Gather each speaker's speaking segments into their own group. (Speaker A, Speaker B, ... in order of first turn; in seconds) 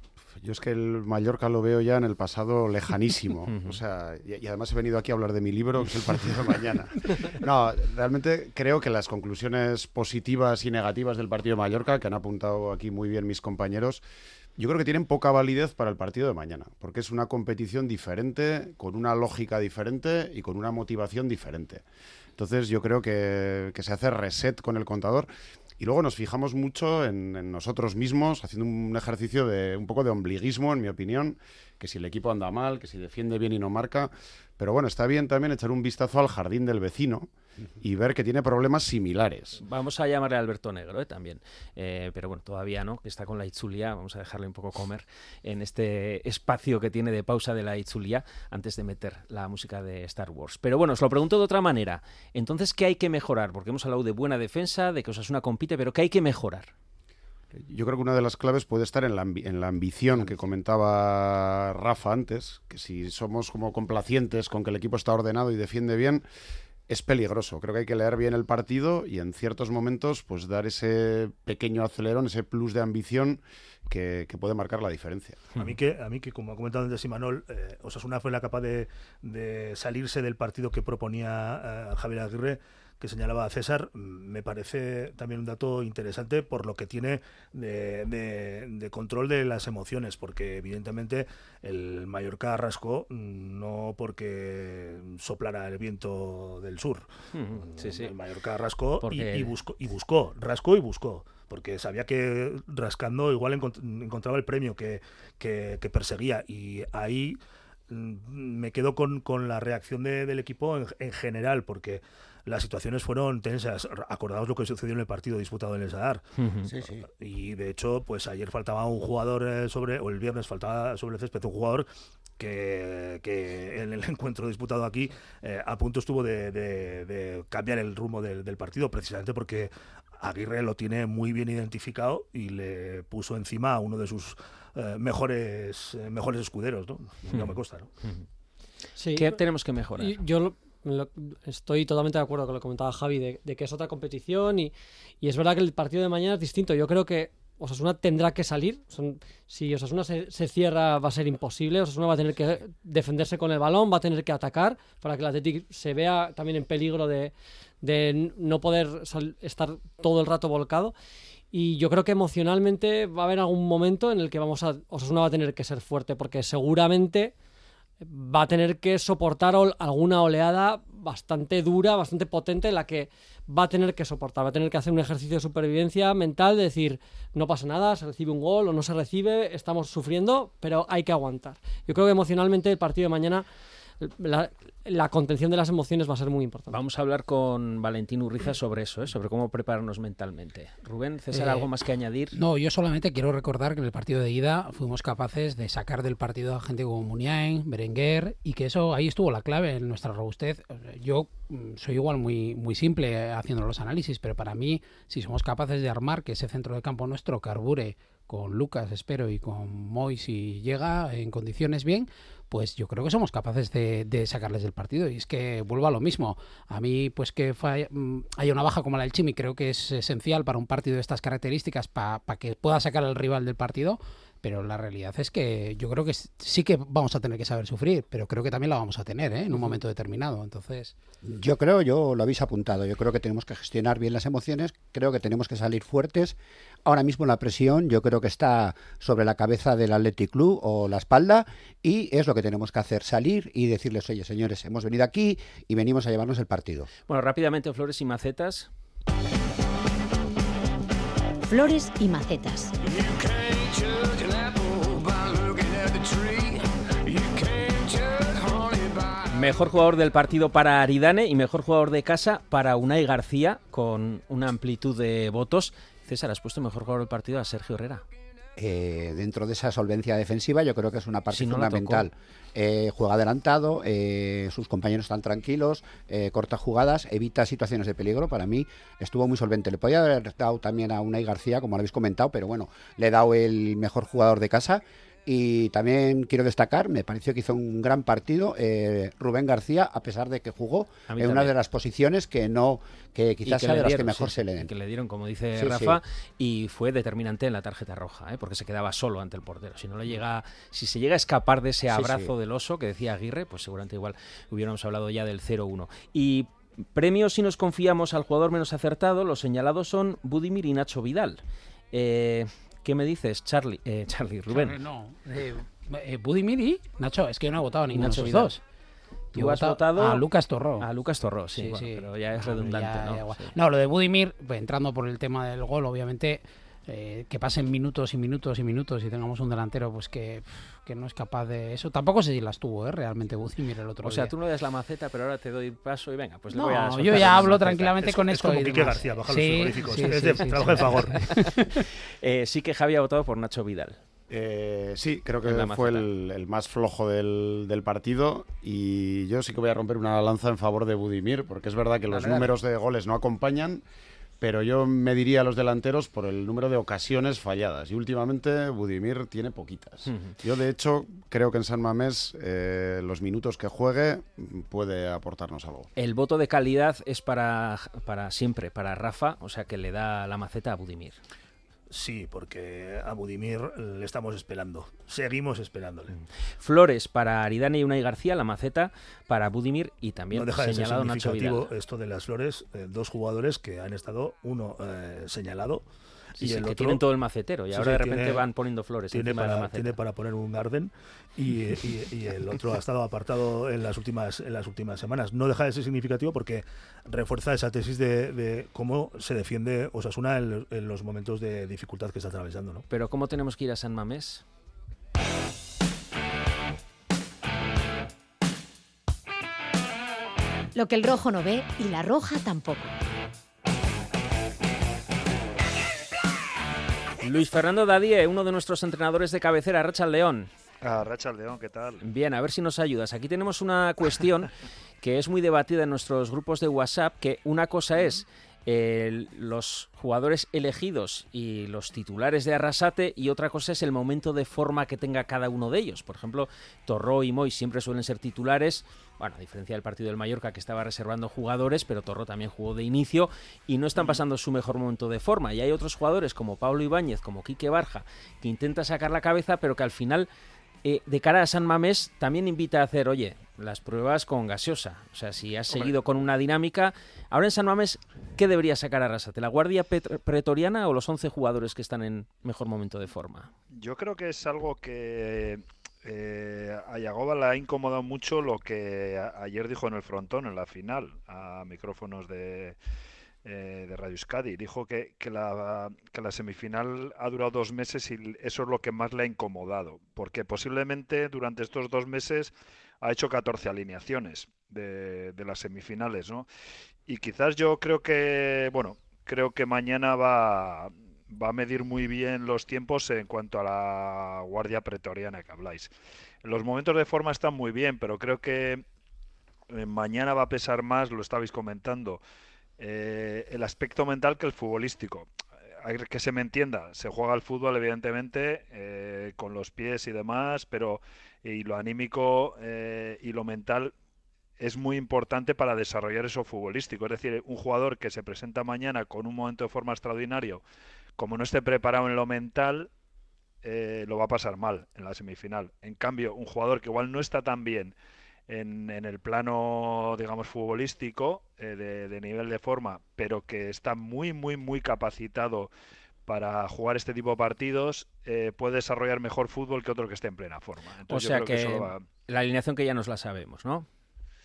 Speaker A: 0.4-14.0, 14.6-21.8, 22.4-39.6, 57.5-66.2, 66.9-75.4, 344.3-353.8, 354.4-365.9
Speaker B: 3.5-3.8, 39.6-56.7, 97.3-98.1, 99.0-99.5, 116.4-116.7, 137.3-138.2, 139.1-140.2, 186.7-192.3, 247.1-248.7, 259.3-268.0, 271.3-272.1, 291.1-291.5, 293.4-311.4, 311.9-314.8, 317.9-318.5, 319.3-320.2, 320.8-323.5, 334.0-338.0, 342.2-344.0, 345.4-346.1, 360.1-360.3, 365.9-371.2, 376.1-381.7, 386.4-389.9, 402.9-404.4, 417.2-420.5, 422.0-424.5, 425.0-450.3, 450.8-463.5, 541.1-543.9
Speaker C: 75.6-97.0, 97.6-107.4, 107.9-116.2, 117.2-137.9, 338.0-341.3, 371.9-376.1, 380.3-385.8, 386.4-387.0, 387.7-388.4, 389.1-402.9
Speaker D: 116.7-117.0, 231.2-246.9, 268.6-294.7, 295.5-296.0, 301.9-302.3
Speaker E: 139.0-139.4, 140.0-160.9, 161.5-167.3, 168.0-183.4, 184.0-186.8
Speaker F: 191.3-191.7, 192.3-230.9, 314.5-318.6, 319.3-320.9, 321.5-334.3, 336.5-341.8, 352.1-352.5
Speaker G: 251.5-252.7, 410.7-412.9
Speaker H: 420.8-422.0, 455.7-455.9, 463.7-472.8, 473.4-486.5, 487.1-495.9, 496.4-498.8, 499.7-502.2, 502.8-505.3, 505.8-513.9, 514.6-520.6, 521.2-522.9, 523.6-527.9, 528.5-535.7, 536.2-542.0